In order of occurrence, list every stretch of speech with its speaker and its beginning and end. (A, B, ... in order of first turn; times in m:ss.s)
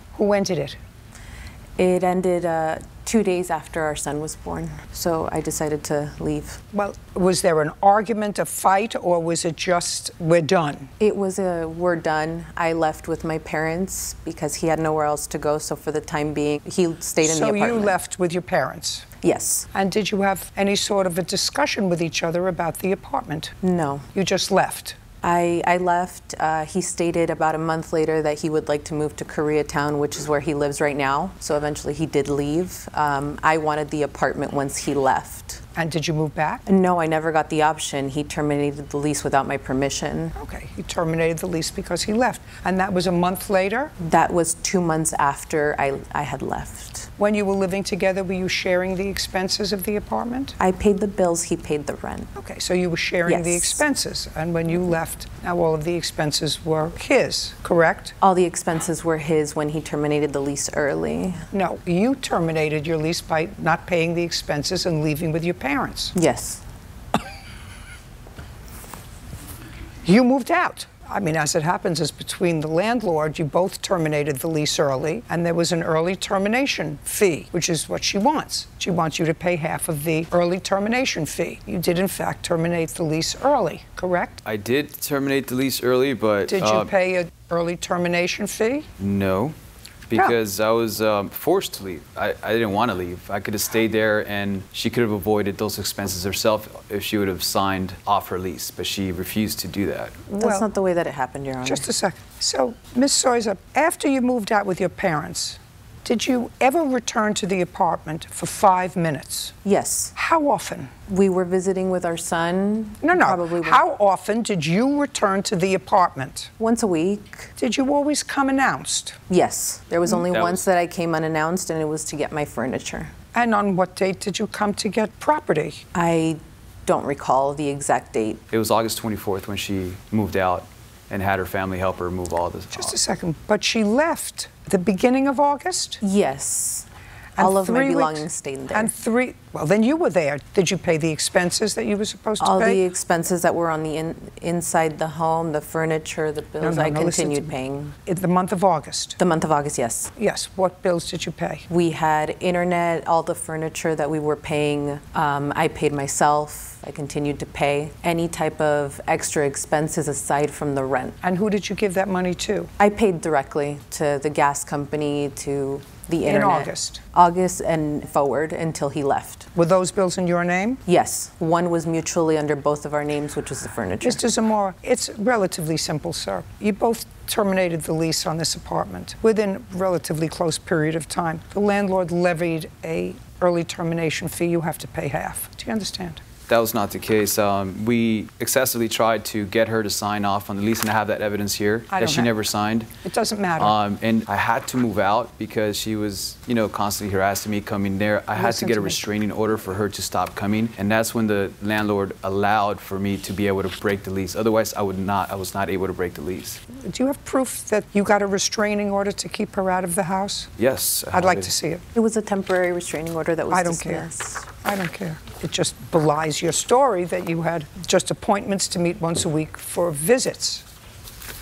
0:00.1-0:00.8 A
0:01.8-0:06.6 B
0:06.7-0:10.9 A
0:11.0-0:18.0 B
0:17.2-0:19.1 A
0:19.2-0:19.7 B
0:19.7-0:23.5 A
0:23.6-0:24.0 B
0:24.1-0:25.0 A
0:25.2-0:35.6 B
0:35.8-0:36.6 A
0:36.7-0:40.3 B
0:40.4-0:43.9 A
0:44.0-0:47.1 B
0:47.2-0:50.6 A
0:50.6-0:52.3 B
0:52.4-0:58.1 A
0:53.2-0:53.8 B
0:58.2-1:01.4 B
1:01.5-1:06.1 A
1:06.1-1:06.6 B
1:10.0-1:24.4 A
1:24.4-1:26.9 C
1:26.5-1:28.9 A
1:29.0-1:29.5 C
1:30.1-1:40.2 C
1:40.3-1:40.7 A
1:40.4-1:41.9 B
1:41.6-1:49.5 A
1:49.6-1:50.1 B
1:50.2-1:50.9 A
1:51.1-1:53.8 B
1:53.0-1:56.5 A
1:56.6-1:57.5 B
1:57.6-1:59.2 A
1:59.3-2:03.1 B
2:00.2-2:00.6 C
2:03.3-2:05.8 A
2:05.9-2:08.4 B
2:08.5-2:12.9 C
2:12.7-2:16.0 A
2:16.0-2:18.9 B
2:17.4-2:22.8 A
2:22.4-2:27.9 B
2:26.6-2:27.5 A
2:28.0-2:29.2 A
2:29.2-2:30.1 B
2:30.2-2:31.6 A
2:31.7-2:41.2 B
2:41.2-2:42.7 A
2:42.8-2:49.5 B
2:46.2-2:47.0 A
2:49.5-2:50.8 A
2:50.9-2:54.2 B
2:54.0-3:06.2 A
3:06.5-3:12.9 C
3:11.9-3:12.3 A
3:13.0-3:13.8 A
3:13.6-3:26.6 C
3:18.4-3:19.1 A
3:26.8-3:30.5 A
3:30.6-3:31.5 C
3:31.1-3:31.8 A
3:31.9-3:34.4 B
3:33.5-3:34.1 A
3:34.6-3:40.6 A